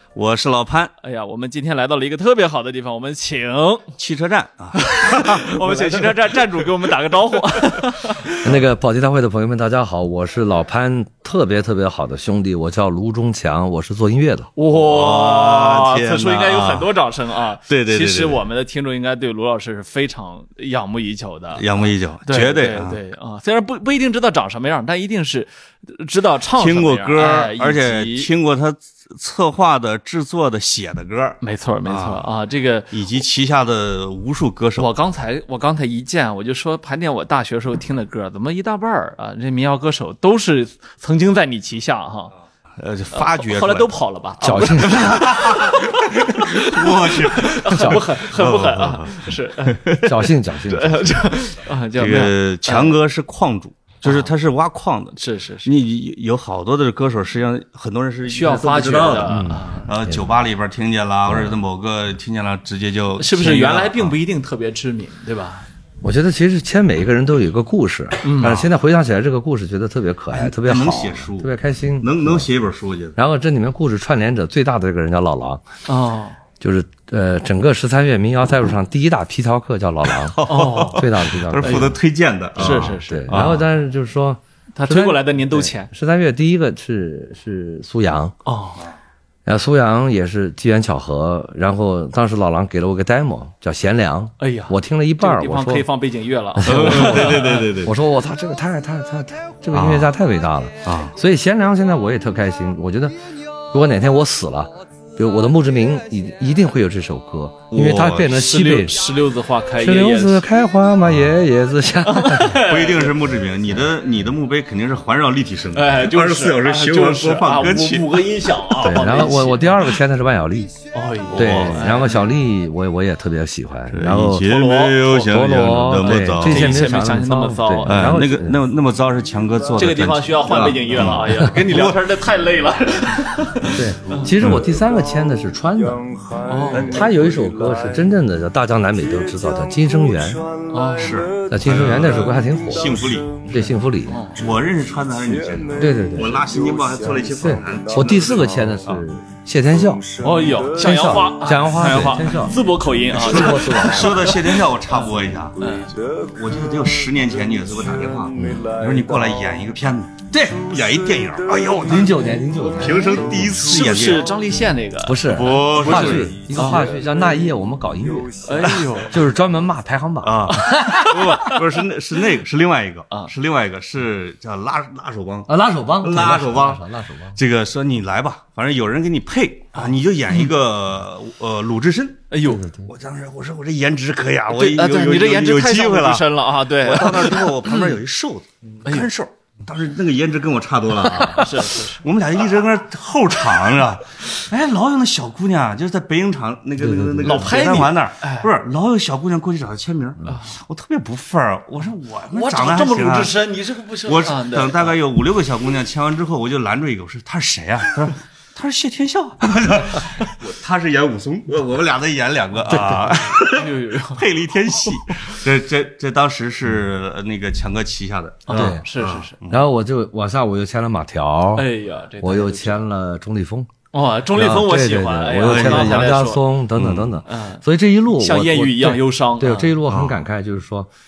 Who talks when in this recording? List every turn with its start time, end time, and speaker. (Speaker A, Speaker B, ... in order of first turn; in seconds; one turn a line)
Speaker A: 0.1-0.9
Speaker B: 1.0-3.9
Speaker A: 4.0-6.4
Speaker B: 4.8-8.5
Speaker C: 8.4-14.5
Speaker B: 14.6-28.3
Speaker A: 14.7-16.9
Speaker A: 17.7-18.4
Speaker A: 21.6-23.0
Speaker A: 26.6-32.3
Speaker B: 31.4-32.9
Speaker A: 32.9-34.9
Speaker B: 34.8-42.3
Speaker A: 42.8-43.9
Speaker B: 43.1-49.8
Speaker C: 44.4-45.2
Speaker A: 44.9-50.1
Speaker C: 50.0-51.2
Speaker B: 50.7-53.0
Speaker A: 52.0-64.2
Speaker B: 54.0-54.3
Speaker B: 55.2-55.7
Speaker B: 58.3-59.9
Speaker C: 59.2-60.2
Speaker C: 61.3-61.6
Speaker B: 63.2-65.7
Speaker C: 66.0-72.5
Speaker B: 68.2-68.6
Speaker A: 68.4-68.7
Speaker A: 70.3-73.2
Speaker C: 73.2-75.6
Speaker B: 75.9-76.4
Speaker C: 76.6-82.0
Speaker A: 80.0-83.6
Speaker B: 80.5-81.9
Speaker B: 82.6-83.6
Speaker C: 82.6-88.4
Speaker B: 84.8-85.9
Speaker B: 88.5-88.8
Speaker C: 89.5-95.9
Speaker B: 94.4-97.7
Speaker C: 96.6-103.2
Speaker A: 96.7-97.9
Speaker A: 99.7-100.1
Speaker A: 100.9-101.1
Speaker C: 103.7-109.0
Speaker A: 107.7-108.4
Speaker B: 108.3-110.5
Speaker C: 109.8-112.6
Speaker A: 111.0-111.3
Speaker B: 112.0-113.2
Speaker A: 112.6-118.2
Speaker B: 115.7-119.8
Speaker C: 118.8-120.7
Speaker B: 120.9-122.3
Speaker A: 121.3-121.8
Speaker C: 121.3-124.5
Speaker A: 123.9-126.8
Speaker B: 124.4-125.3
Speaker C: 125.3-128.6
Speaker B: 126.1-128.2
Speaker A: 127.9-132.1
Speaker B: 129.8-134.3
Speaker C: 133.7-136.1
Speaker A: 134.4-134.7
Speaker B: 136.4-136.9
Speaker A: 136.7-137.0
Speaker C: 136.8-140.5
Speaker B: 140.7-141.2
Speaker A: 141.0-143.4
Speaker C: 141.5-144.2
Speaker B: 143.6-144.4
Speaker A: 144.4-149.1
Speaker C: 145.8-146.4
Speaker C: 147.3-150.2
Speaker B: 150.2-155.9
Speaker C: 150.8-152.6
Speaker A: 153.2-155.6
Speaker C: 153.2-154.3
Speaker A: 156.3-162.2
Speaker C: 158.3-158.7
Speaker C: 161.8-163.2
Speaker A: 162.8-164.3
Speaker B: 163.6-165.3
Speaker C: 165.0-168.5
Speaker A: 165.3-166.6
Speaker B: 166.2-166.8
Speaker B: 168.4-169.2
Speaker C: 169.1-171.1
Speaker A: 170.2-176.8
Speaker B: 170.5-171.6
Speaker C: 175.5-177.4
Speaker A: 177.4-182.3
Speaker B: 179.8-180.5
Speaker B: 182.3-182.6
Speaker C: 182.5-182.9
Speaker A: 182.8-203.4
Speaker B: 184.5-187.9
Speaker B: 188.8-189.1
Speaker B: 191.1-192.0
Speaker C: 196.8-197.6
Speaker B: 197.2-198.5
Speaker B: 200.3-200.5
Speaker B: 202.3-205.0
Speaker A: 204.1-219.6
Speaker C: 212.7-213.1
Speaker B: 213.1-214.2
Speaker B: 215.1-215.4
Speaker B: 218.5-219.4
Speaker C: 218.5-218.8
Speaker C: 219.5-221.7
Speaker B: 221.6-222.8
Speaker C: 222.2-223.7
Speaker B: 223.9-226.4
Speaker C: 224.3-230.9
Speaker A: 225.4-226.2
Speaker A: 226.8-227.1
Speaker B: 227.3-229.8
Speaker A: 229.9-230.2